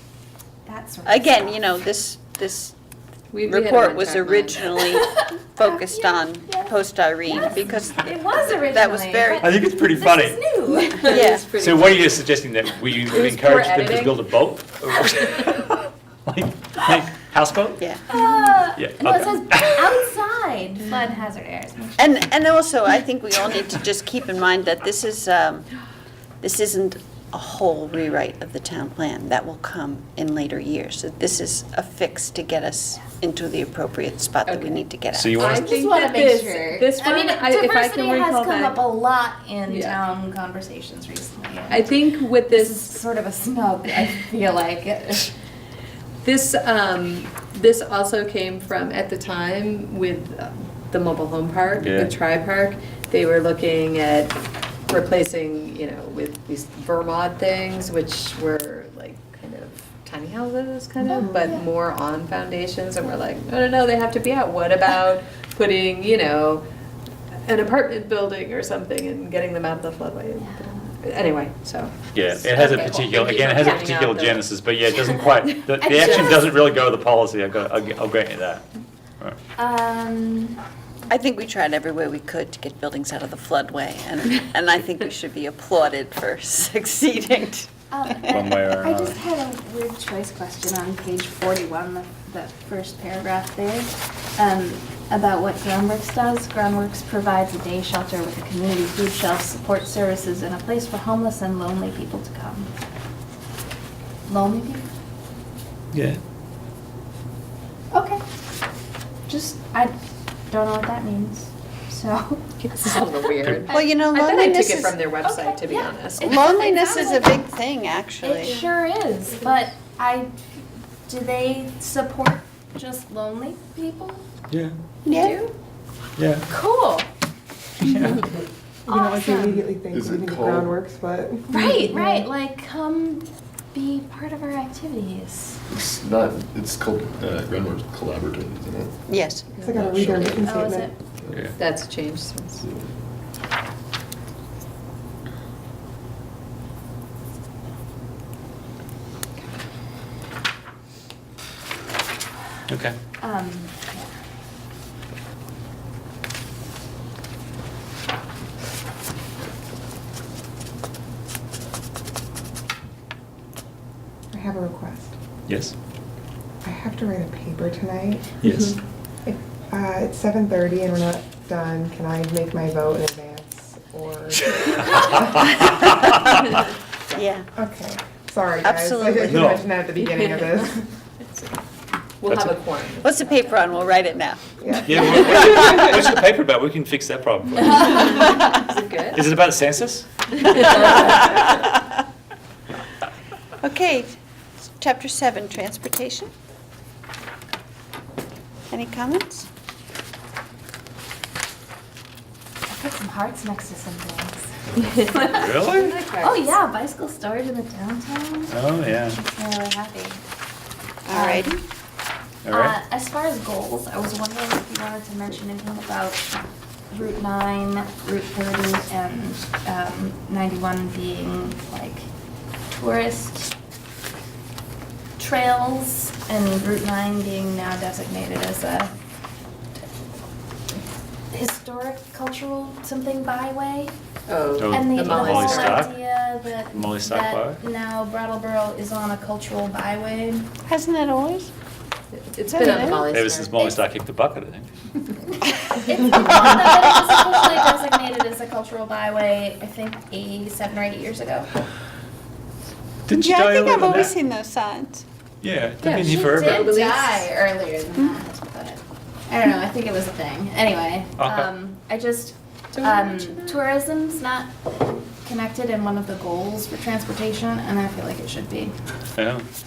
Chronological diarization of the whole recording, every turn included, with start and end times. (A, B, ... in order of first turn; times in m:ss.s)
0:00.7-0:01.6 A
0:01.0-0:02.8 B
0:03.3-0:04.9 C
0:03.5-0:09.5 B
0:05.1-0:06.7 A
0:07.3-0:11.3 A
0:09.4-0:10.5 D
0:10.8-0:12.2 C
0:11.0-0:11.5 B
0:11.5-0:17.8 D
0:13.0-0:14.2 C
0:18.1-0:22.0 A
0:18.8-0:20.0 D
0:22.0-0:25.7 B
0:26.4-0:35.4 B
0:34.4-0:38.8 C
0:35.1-0:35.8 D
0:35.5-0:41.9 A
0:39.7-0:40.0 C
0:41.7-0:43.0 C
0:42.5-0:45.3 A
0:46.2-1:06.6 C
0:51.8-0:52.2 D
1:01.0-1:01.5 E
1:01.3-1:01.6 A
1:07.4-1:14.5 C
1:12.1-1:18.6 D
1:12.6-1:13.8 A
1:15.8-1:16.5 A
1:15.8-1:16.4 C
1:19.6-1:20.6 A
1:21.1-1:28.4 B
1:27.9-1:42.7 A
1:28.3-1:29.2 D
1:44.3-1:44.9 A
1:45.9-1:46.2 D
1:47.9-1:48.2 A
1:49.3-1:49.9 A
1:50.5-1:53.0 A
1:52.6-1:56.4 C
1:53.7-1:55.0 B
1:55.2-1:57.4 A
1:56.2-1:58.6 B
1:58.2-2:00.3 A
1:58.3-1:58.7 C
2:01.1-2:04.2 A
2:04.5-2:04.8 D
2:05.0-2:05.4 B
2:05.1-2:05.5 C
2:06.2-2:06.4 D
2:06.5-2:07.1 A
2:07.8-2:08.2 D
2:08.9-2:09.7 A
2:08.9-2:12.3 E
2:09.9-2:10.8 F
2:11.5-2:15.6 A
2:15.7-2:18.9 F
2:19.1-2:19.5 B
2:19.5-2:20.3 C
2:19.6-2:20.9 E
2:19.7-2:20.5 F
2:20.4-2:21.0 A
2:21.2-2:21.6 F
2:21.6-2:22.6 C
2:32.7-2:33.0 D
2:33.2-2:34.1 A
2:44.3-2:45.2 E
2:45.5-2:45.8 D
2:46.6-2:48.4 E
2:48.4-2:48.8 D
2:49.2-2:55.6 E
2:54.8-2:56.4 D
2:55.7-2:56.0 B
2:57.1-2:57.5 B
2:57.6-3:00.9 E
2:58.6-2:59.5 B
2:59.3-2:59.7 D
3:00.1-3:00.6 C
3:01.3-3:01.6 C
3:02.2-3:03.6 C
3:03.0-3:04.4 B
3:04.6-3:05.9 E
3:04.8-3:08.2 D
3:05.0-3:05.8 B
3:08.1-3:09.2 C
3:09.1-3:10.7 D
3:10.4-3:11.6 C
3:13.6-3:14.2 B
3:14.8-3:16.3 B
3:18.7-3:19.5 B
3:22.7-3:25.5 A
3:24.9-3:26.5 C
3:25.2-3:26.0 D
3:26.2-3:30.2 A
3:28.5-3:29.2 D
3:31.1-3:31.6 B
3:31.1-3:31.6 A
3:32.5-3:32.8 D
3:32.5-3:36.3 A
3:36.9-3:42.1 A
3:42.7-3:43.5 A
3:45.2-3:48.9 A
3:51.3-3:53.9 A
3:54.3-3:55.9 C
3:54.6-3:55.9 D
3:54.7-4:00.5 A
3:56.7-3:57.6 D
4:00.7-4:01.5 B
4:02.1-4:03.8 C
4:02.5-4:03.1 B
4:03.1-4:04.7 D
4:05.5-4:11.5 A
4:06.2-4:07.6 B
4:13.1-4:14.1 D
4:13.2-4:15.0 B
4:15.4-4:16.7 D
4:15.8-4:17.3 C
4:16.2-4:28.7 A
4:21.2-4:21.5 D
4:22.7-4:23.6 C
4:29.2-4:29.4 D